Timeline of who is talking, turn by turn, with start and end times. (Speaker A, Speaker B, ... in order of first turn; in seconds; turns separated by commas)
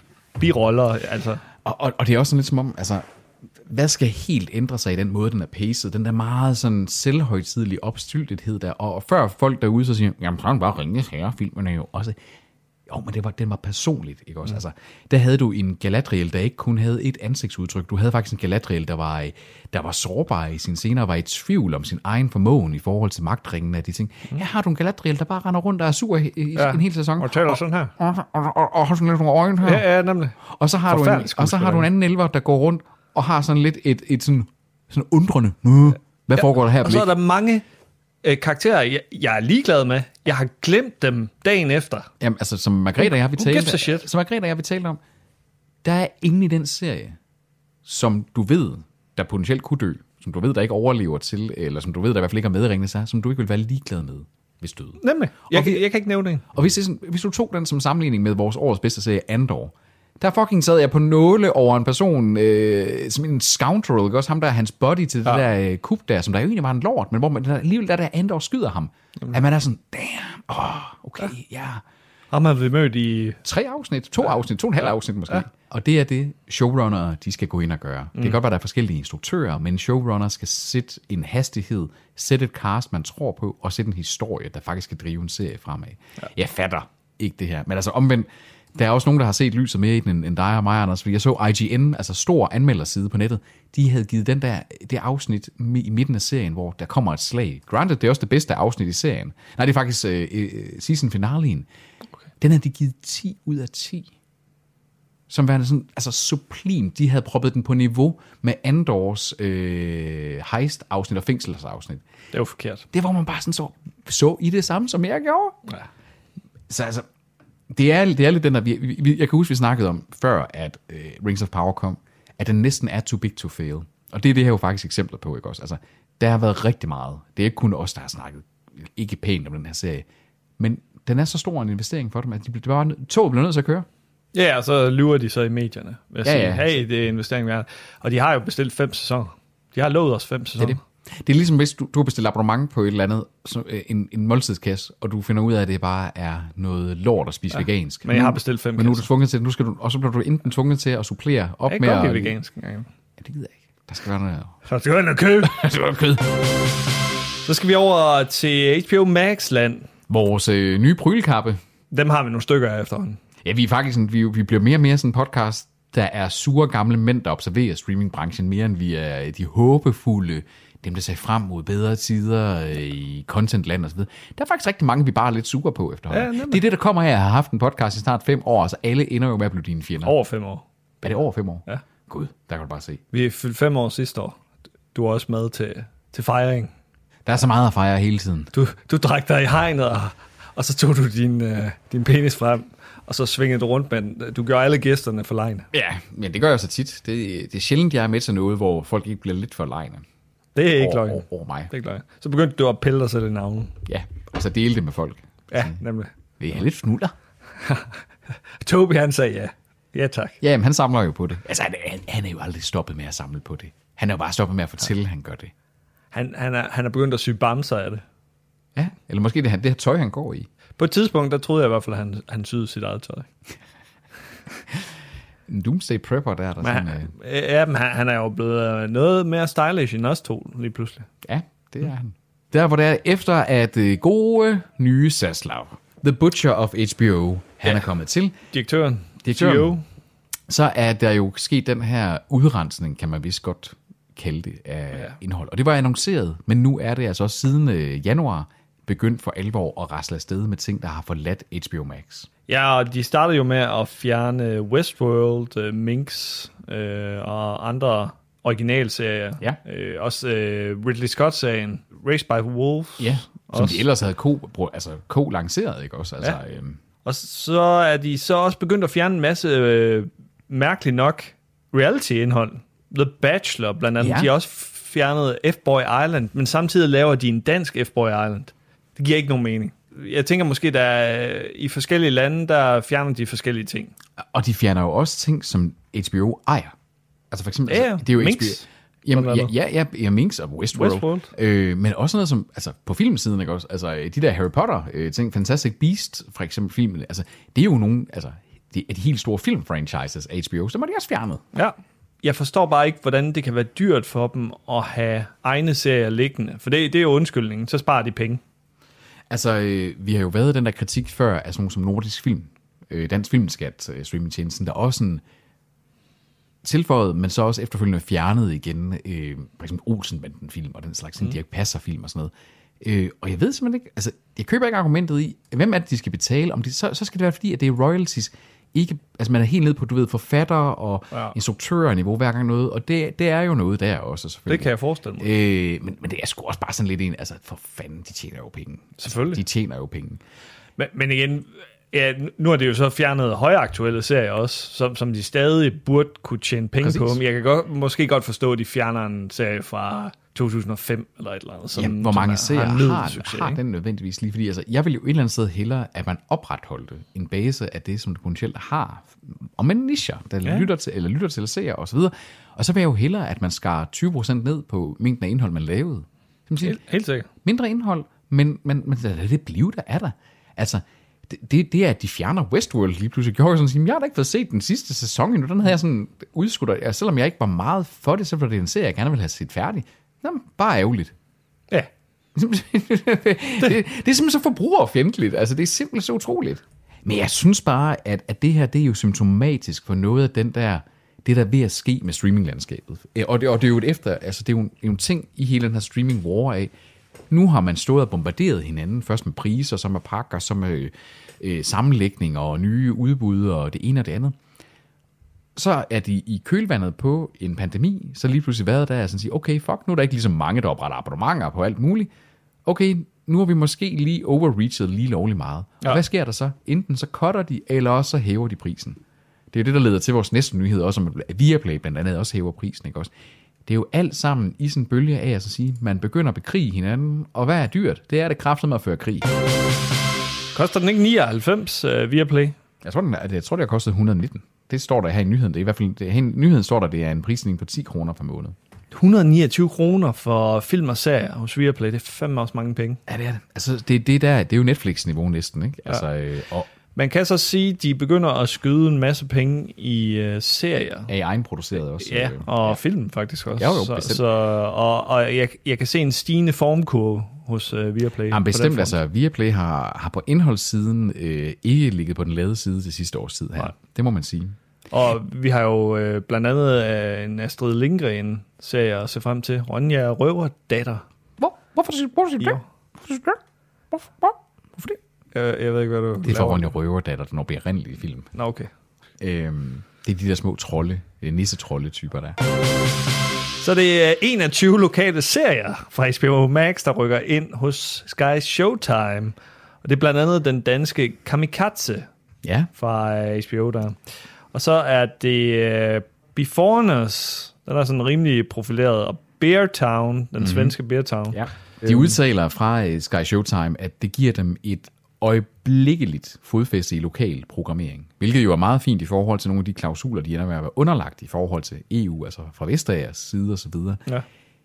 Speaker A: 0.4-1.4, Speaker B: 1.6-3.0, Speaker B: 3.6-12.2, Speaker B: 12.9-29.9, Speaker A: 26.6-27.9, Speaker A: 29.6-30.4, Speaker B: 30.4-37.1, Speaker A: 30.9-31.9, Speaker A: 36.4-37.6, Speaker A: 38.2-42.1, Speaker B: 42.2-45.0, Speaker A: 43.0-44.0, Speaker B: 45.8-47.2, Speaker B: 47.8-55.8, Speaker A: 55.0-56.4, Speaker B: 56.5-71.8, Speaker A: 72.3-73.4, Speaker B: 73.4-101.7, Speaker B: 102.4-104.1, Speaker B: 105.3-112.0, Speaker A: 112.3-112.8, Speaker B: 112.9-115.6, Speaker B: 116.7-117.0, Speaker B: 117.7-130.1, Speaker B: 130.6-133.9, Speaker A: 134.3-140.8, Speaker B: 136.2-136.7, Speaker B: 140.6-152.3, Speaker A: 148.0-149.1, Speaker A: 151.7-152.9, Speaker B: 153.2-154.5, Speaker A: 154.6-155.6, Speaker B: 155.4-156.4, Speaker A: 157.4-159.9, Speaker B: 160.1-161.6, Speaker A: 161.9-163.2, Speaker B: 163.4-180.1, Speaker A: 176.1-176.6, Speaker A: 180.0-180.6, Speaker B: 181.0-183.0, Speaker A: 183.1-184.4, Speaker A: 184.9-186.7, Speaker B: 187.2-188.5, Speaker A: 188.5-195.7, Speaker B: 195.7-200.0, Speaker A: 200.5-203.7, Speaker B: 200.7-201.7, Speaker B: 203.8-205.8, Speaker A: 205.5-206.1, Speaker B: 206.4-207.1, Speaker A: 207.6-208.0, Speaker A: 208.5-210.4, Speaker B: 210.4-215.5, Speaker A: 216.1-218.0, Speaker B: 218.7-220.5, Speaker A: 220.8-223.3, Speaker B: 225.5-227.1, Speaker A: 226.6-231.1, Speaker B: 231.2-238.3, Speaker A: 238.5-239.8, Speaker B: 239.2-239.8, Speaker B: 240.5-252.3, Speaker A: 252.5-263.8, Speaker B: 263.0-266.8, Speaker A: 267.0-283.9, Speaker B: 274.0-274.3, Speaker B: 284.3-286.7, Speaker B: 287.3-301.4, Speaker A: 287.7-289.5, Speaker A: 290.7-291.3, Speaker A: 301.5-308.4, Speaker B: 309.3-315.2, Speaker B: 316.6-340.2, Speaker A: 334.5-335.3, Speaker A: 339.0-339.4, Speaker A: 340.8-353.6, Speaker B: 346.8-347.2, Speaker B: 351.7-366.8, Speaker A: 366.6-367.3, Speaker B: 367.4-381.1, Speaker B: 382.3-396.7, Speaker B: 397.3-404.4, Speaker B: 405.6-412.1, Speaker B: 412.6-419.0, Speaker B: 419.5-423.1, Speaker B: 423.6-429.3, Speaker A: 430.5-432.5, Speaker B: 432.8-438.5, Speaker A: 438.9-443.0, Speaker B: 443.1-446.7, Speaker A: 446.9-451.1, Speaker B: 451.1-452.8, Speaker A: 452.0-458.9, Speaker B: 453.6-454.2, Speaker B: 458.3-464.6, Speaker A: 464.9-471.0, Speaker B: 471.4-473.4, Speaker B: 473.9-475.0, Speaker A: 475.3-476.7, Speaker B: 476.2-478.3, Speaker A: 478.3-478.7, Speaker B: 479.2-482.4, Speaker A: 483.6-492.1, Speaker B: 492.4-492.7, Speaker A: 492.7-494.0, Speaker A: 494.5-502.0, Speaker B: 500.4-500.7, Speaker B: 501.3-514.0